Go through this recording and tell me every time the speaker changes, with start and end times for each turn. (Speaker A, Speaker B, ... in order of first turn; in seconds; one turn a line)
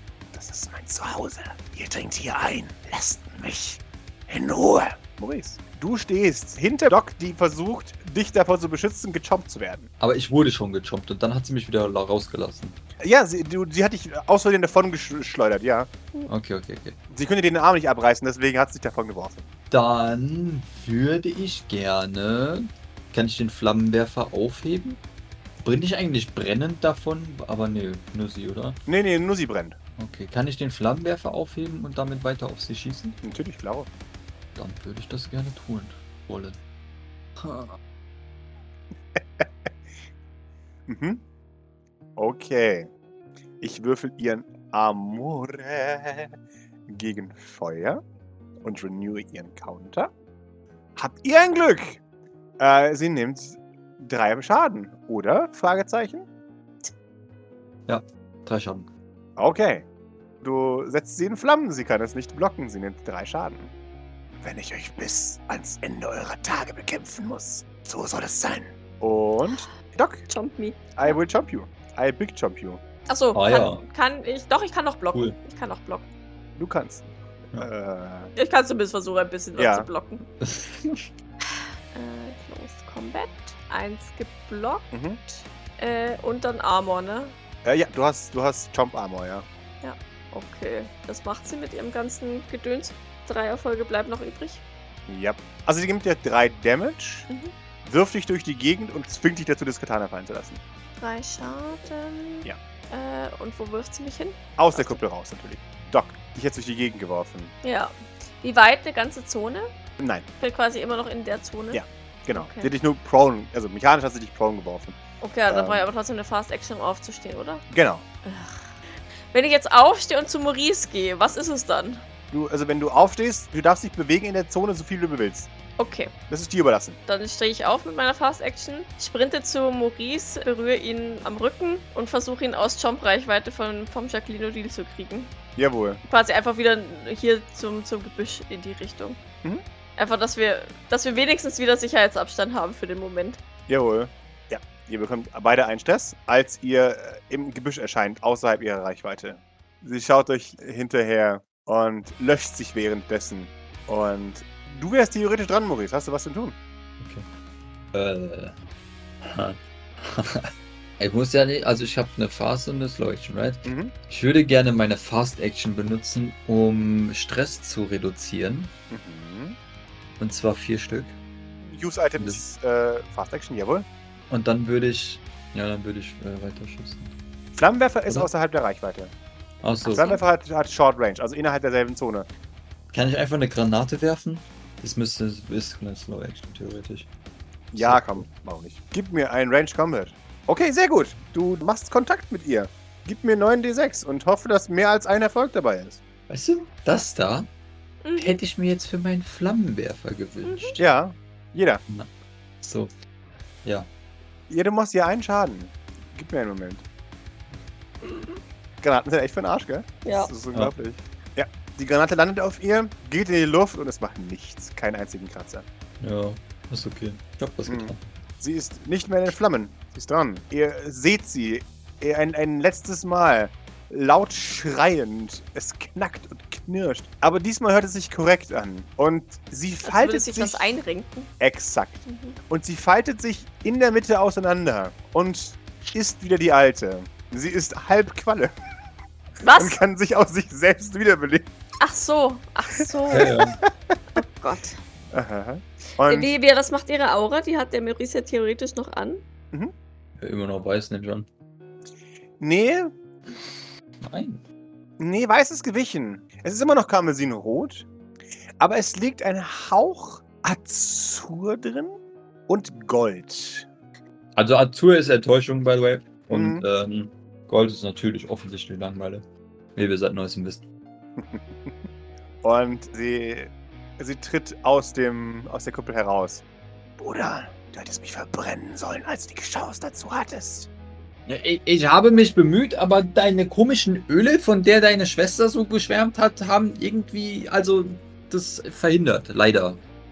Speaker A: 0.3-9.9
Speaker B: 10.0-12.8
Speaker A: 13.0-15.9
Speaker B: 16.3-17.0
Speaker A: 17.1-19.5
Speaker B: 19.7-25.0
Speaker B: 25.6-28.8
Speaker A: 28.9-29.8
Speaker B: 30.0-33.2
Speaker A: 33.2-33.9
Speaker B: 34.5-36.6
Speaker B: 37.4-37.8
Speaker A: 39.1-39.7
Speaker A: 40.9-41.2
Speaker A: 42.2-42.9
Speaker A: 43.6-46.4
Speaker A: 46.9-48.0
Speaker A: 48.6-50.1
Speaker A: 51.0-52.0
Speaker A: 52.6-56.3
Speaker B: 57.9-58.9
Speaker A: 59.4-59.9
Speaker A: 60.4-63.7
Speaker A: 64.4-70.3
Speaker C: 70.3-71.2
Speaker A: 71.0-72.8
Speaker C: 73.1-76.1
Speaker B: 73.3-73.8
Speaker A: 76.6-78.3
Speaker C: 78.4-80.2
Speaker A: 79.6-79.9
Speaker B: 80.4-81.1
Speaker C: 81.9-87.3
Speaker A: 84.9-85.2
Speaker A: 87.6-89.5
Speaker C: 89.8-94.6
Speaker A: 95.1-97.3
Speaker A: 97.8-100.6
Speaker C: 101.0-105.0
Speaker A: 104.6-107.5
Speaker C: 107.6-109.7
Speaker A: 110.0-110.3
Speaker C: 110.4-112.7
Speaker A: 111.7-115.0
Speaker C: 115.2-117.6
Speaker A: 115.5-115.9
Speaker A: 117.7-118.0
Speaker C: 118.2-118.7
Speaker C: 119.3-122.0
Speaker A: 122.3-125.5
Speaker C: 125.8-126.1
Speaker A: 126.3-127.0
Speaker C: 127.1-135.3
Speaker A: 135.6-136.0
Speaker C: 136.1-139.2
Speaker C: 140.0-143.4
Speaker A: 143.7-156.6
Speaker B: 157.0-157.3
Speaker B: 157.9-158.6
Speaker B: 159.2-168.7
Speaker A: 163.7-163.9
Speaker A: 168.9-169.6
Speaker B: 170.2-171.2
Speaker A: 171.7-173.9
Speaker B: 172.2-172.4
Speaker B: 174.3-177.1
Speaker A: 177.6-179.1
Speaker B: 179.6-180.1
Speaker A: 179.8-182.3
Speaker C: 179.9-180.2
Speaker B: 182.9-187.1
Speaker A: 187.7-196.0
Speaker B: 187.8-188.3
Speaker B: 196.3-197.5
Speaker C: 198.0-198.4
Speaker B: 198.2-200.8
Speaker C: 200.4-200.8
Speaker A: 200.8-201.8
Speaker B: 202.6-202.9
Speaker A: 204.5-206.8
Speaker A: 208.8-215.7
Speaker C: 210.1-210.3
Speaker B: 216.0-218.0
Speaker A: 217.7-230.7
Speaker C: 229.8-231.3
Speaker A: 231.4-238.6
Speaker C: 232.1-232.4
Speaker C: 239.4-239.8
Speaker A: 239.6-241.5
Speaker C: 241.8-243.3
Speaker B: 243.1-243.6
Speaker A: 243.1-243.7
Speaker C: 244.2-244.8
Speaker A: 245.1-246.3
Speaker C: 246.0-249.2
Speaker B: 250.2-251.3
Speaker A: 252.4-252.9
Speaker B: 254.0-254.4
Speaker A: 255.0-257.9
Speaker A: 258.6-262.0
Speaker A: 262.5-263.7
Speaker B: 264.4-270.6
Speaker A: 266.3-266.6
Speaker A: 271.2-271.8
Speaker A: 272.4-276.4
Speaker A: 277.0-280.7
Speaker B: 281.3-289.8